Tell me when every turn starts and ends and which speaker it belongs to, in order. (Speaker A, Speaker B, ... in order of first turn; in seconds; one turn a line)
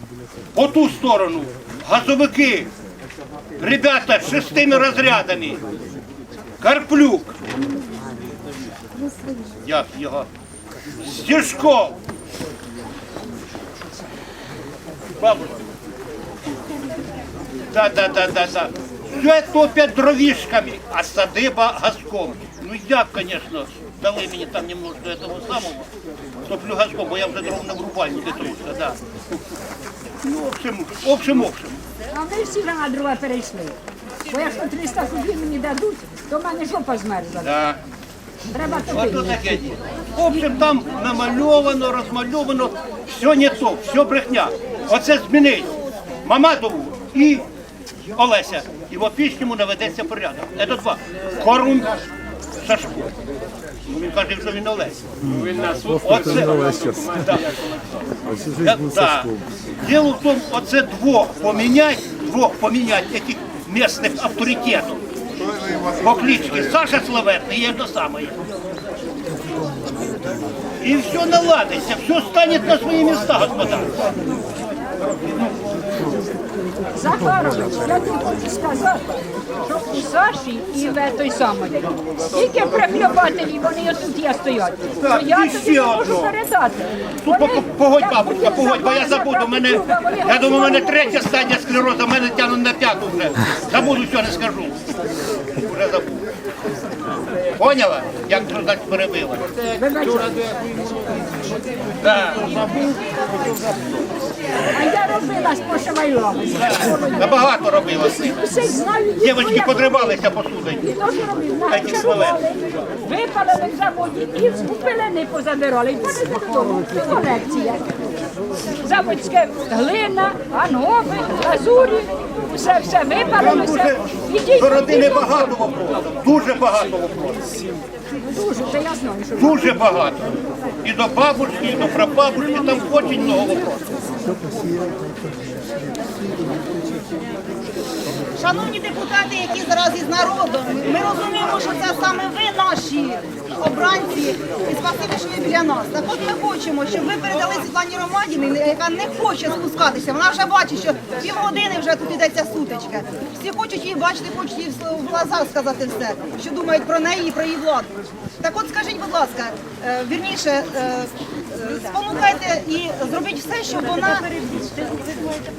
Speaker A: 0.6-2.7
Speaker A: 3.6-5.6
Speaker A: 6.6-7.4
Speaker A: 9.6-10.3
Speaker A: 11.0-11.9
Speaker A: 15.2-15.5
Speaker A: 17.7-25.9
Speaker A: 26.4-29.0
Speaker A: 30.2-31.8
Speaker B: 32.1-33.8
Speaker B: 34.3-37.6
Speaker A: 37.4-37.8
Speaker B: 38.5-39.6
Speaker A: 38.6-45.7
Speaker B: 40.2-40.7
Speaker A: 46.2-47.4
Speaker A: 48.1-52.0
Speaker A: 52.6-53.1
Speaker A: 53.9-55.0
Speaker C: 55.2-58.1
Speaker A: 56.0-57.4
Speaker A: 58.6-65.0
Speaker A: 66.0-68.4
Speaker A: 70.8-74.1
Speaker A: 75.1-75.5
Speaker B: 76.9-91.6
Speaker A: 85.0-86.3
Speaker A: 87.2-94.8
Speaker A: 95.6-96.3
Speaker A: 97.6-100.6
Speaker B: 99.8-100.4
Speaker A: 102.0-102.9
Speaker D: 103.0-103.4
Speaker B: 104.7-117.9
Speaker A: 106.5-108.4
Speaker A: 109.2-111.0
Speaker A: 111.7-112.4
Speaker B: 118.8-125.6
Speaker A: 123.2-127.4
Speaker B: 128.2-129.9
Speaker A: 129.3-130.3
Speaker A: 130.8-133.9
Speaker D: 138.4-164.3